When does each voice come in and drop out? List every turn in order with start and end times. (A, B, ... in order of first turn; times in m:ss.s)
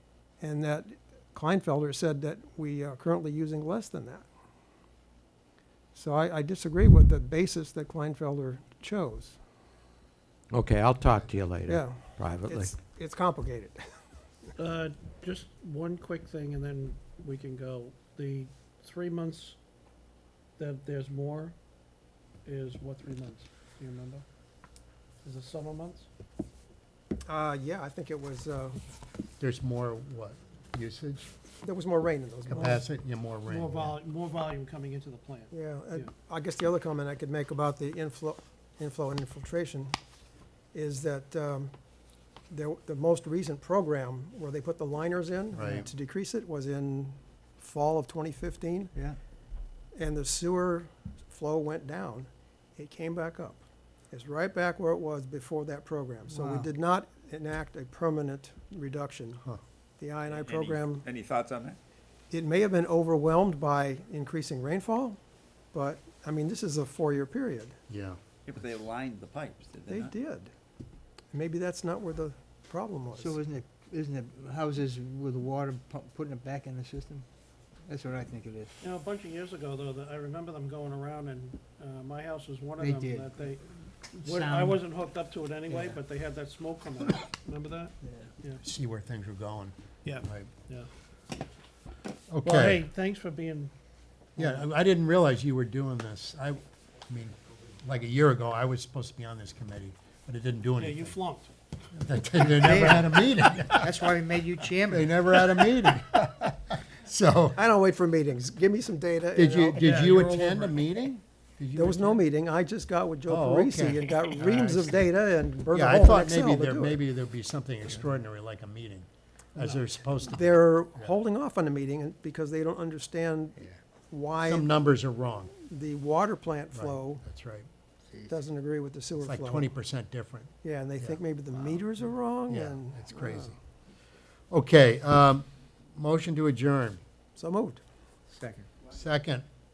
0:00.4-0:04.2 A
0:05.9-0:09.4 A
0:10.5-0:12.6 B
0:11.7-0:13.8 A
0:14.6-0:19.6 C
0:20.6-0:21.5 C
0:22.4-0:24.2 C
0:25.2-0:26.1 C
0:27.2-0:28.8 A
0:29.4-0:31.3 D
0:31.6-0:32.8 A
0:32.5-0:34.0 D
0:33.5-0:36.1 C
0:35.5-0:39.9 A
0:40.7-0:41.7 A
0:42.5-0:48.9 A
0:45.6-0:45.9 D
0:49.9-0:59.4 A
0:56.3-0:56.7 E
1:00.0-1:01.0 A
1:00.3-1:01.8 F
1:02.3-1:05.2 A
1:05.7-1:07.8 A
1:07.9-1:08.2 D
1:08.4-1:10.1 F
1:09.9-1:10.5 A
1:11.3-1:13.4 A
1:13.1-1:17.2 E
1:17.8-1:18.7 E
1:18.8-1:28.6 C
1:22.8-1:23.3 E
1:24.2-1:24.8 E
1:25.7-1:26.0 E
1:28.6-1:30.5 D
1:30.0-1:30.9 C
1:32.3-1:32.8 D
1:32.4-1:33.7 C
1:34.4-1:41.2 D
1:40.8-1:41.5 C
1:41.9-1:44.0 D
1:42.6-1:45.6 E
1:44.9-1:47.6 D
1:47.6-1:50.2 A
1:49.3-1:52.2 D
1:49.7-1:50.8 C
1:51.8-1:57.0 A
1:53.3-1:55.1 D
1:55.7-2:01.1 D
1:59.6-1:59.8 C
2:00.3-2:04.7 A
2:04.4-2:05.5 D
2:05.6-2:07.2 A
2:06.7-2:07.7 D
2:08.2-2:09.7 A
2:09.2-2:11.2 D
2:10.6-2:13.6 A
2:12.5-2:13.6 D
2:14.5-2:17.0 D
2:17.4-2:17.8 A
2:18.3-2:18.7 E
2:18.9-2:19.4 D